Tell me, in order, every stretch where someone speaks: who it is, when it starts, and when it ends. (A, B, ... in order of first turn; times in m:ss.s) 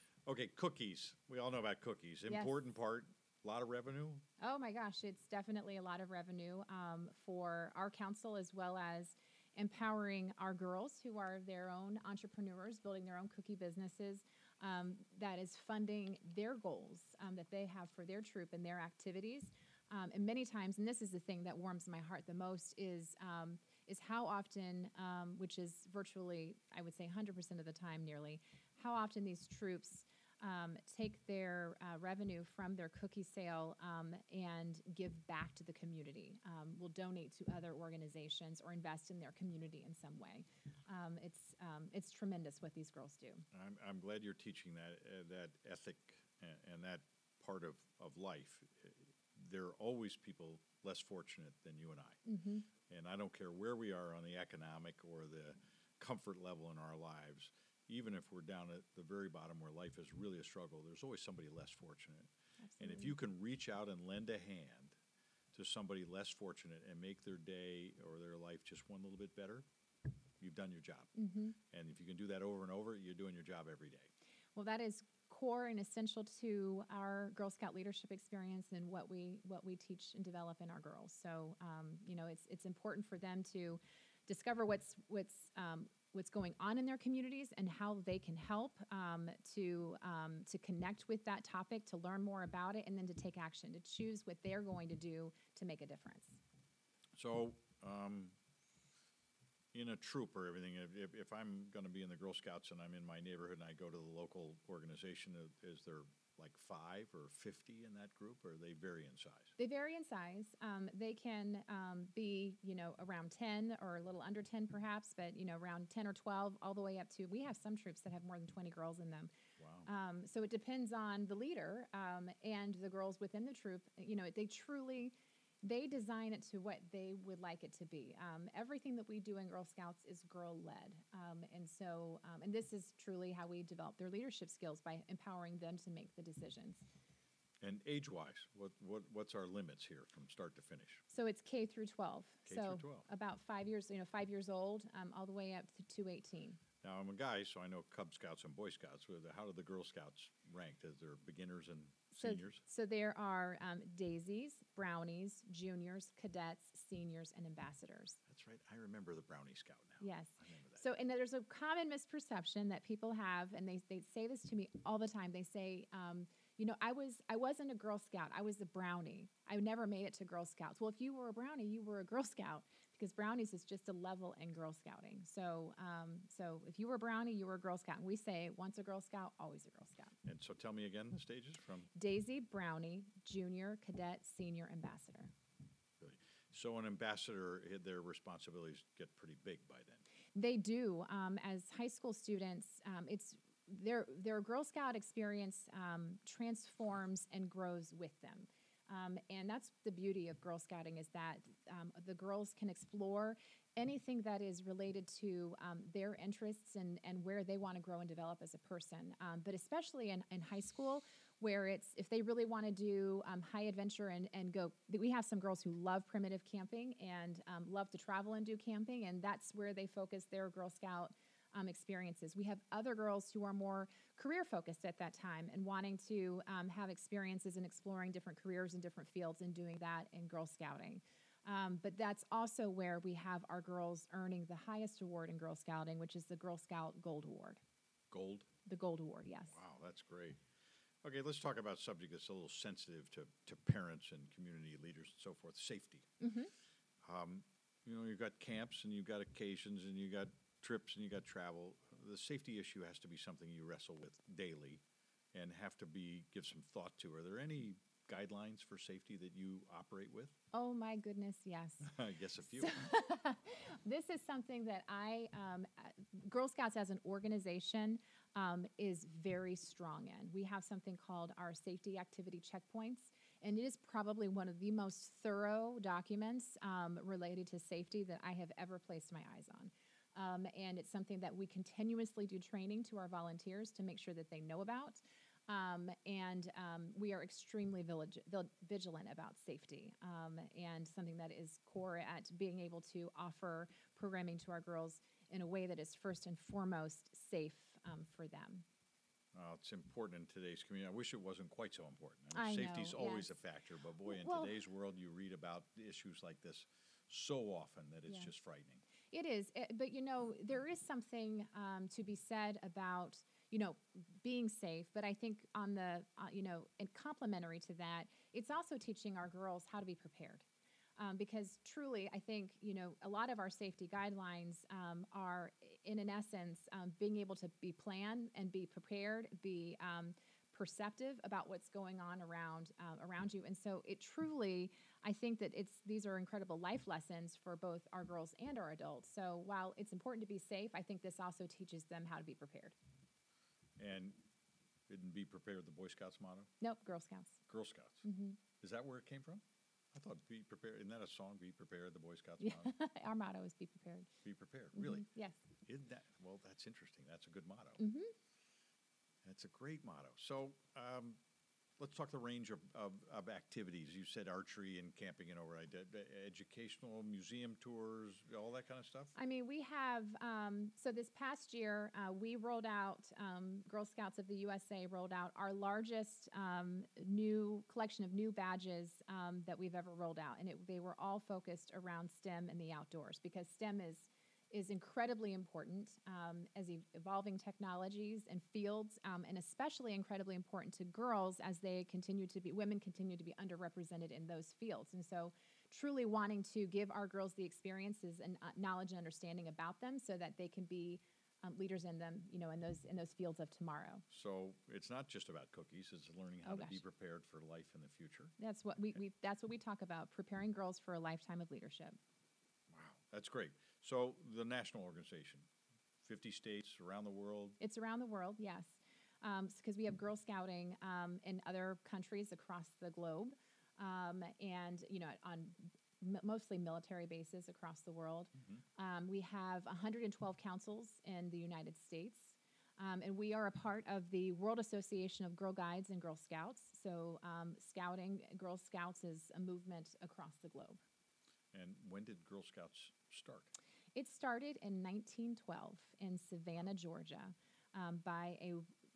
0:00.2-0:04.2 A
0:02.3-0:02.5 B
0:04.4-0:43.4 B
0:43.5-0:52.2 A
0:52.2-0:52.7 B
0:52.8-1:05.0 A
1:02.6-1:03.1 B
1:05.5-1:09.6 A
1:10.4-1:11.1 A
1:11.2-1:11.6 B
1:11.7-1:14.1 A
1:14.6-1:36.4 B
1:37.1-1:38.4 A
1:39.7-1:49.5 A
1:49.6-1:59.3 B
1:59.6-1:59.9 A
1:59.8-2:16.8 B
2:17.6-2:21.0 A
2:21.1-2:26.6 B
2:22.4-2:23.0 A
2:26.8-2:32.6 A
2:32.2-2:38.2 B
2:38.3-2:40.9 A
2:40.0-3:00.2 B
3:00.2-3:01.9 A
3:01.9-3:05.3 B
3:06.0-3:10.0 A
3:10.3-3:57.6 B
3:58.1-3:58.5 A
3:58.6-3:59.6 B
3:59.5-4:00.4 A
4:01.0-4:06.1 A
4:06.2-4:06.5 B
4:07.0-4:14.8 A
4:15.3-4:20.3 A
4:20.5-4:58.6 B
4:21.8-4:22.8 A
4:59.3-5:08.8 A
5:02.3-5:03.4 B
5:04.1-5:04.5 B
5:09.1-5:20.4 B
5:21.0-5:42.8 B
5:43.8-5:44.2 A
5:44.9-5:46.5 A
5:46.6-5:47.4 B
5:47.5-5:48.0 A
5:48.0-5:48.4 B
5:48.6-5:52.7 A
5:52.4-5:54.1 B
5:54.2-5:55.0 A
5:54.7-5:55.4 B
5:55.6-5:57.8 A
5:57.8-5:58.1 B
5:59.2-6:01.2 A
6:01.8-6:09.1 A
6:09.2-6:44.0 B
6:44.1-6:48.3 A
6:46.4-6:46.8 B
6:48.4-6:52.0 B
6:52.7-6:55.5 A
6:56.0-6:57.6 A
6:57.6-7:20.8 B
7:08.4-7:08.6 A
7:21.5-7:23.5 A
7:23.9-7:28.7 B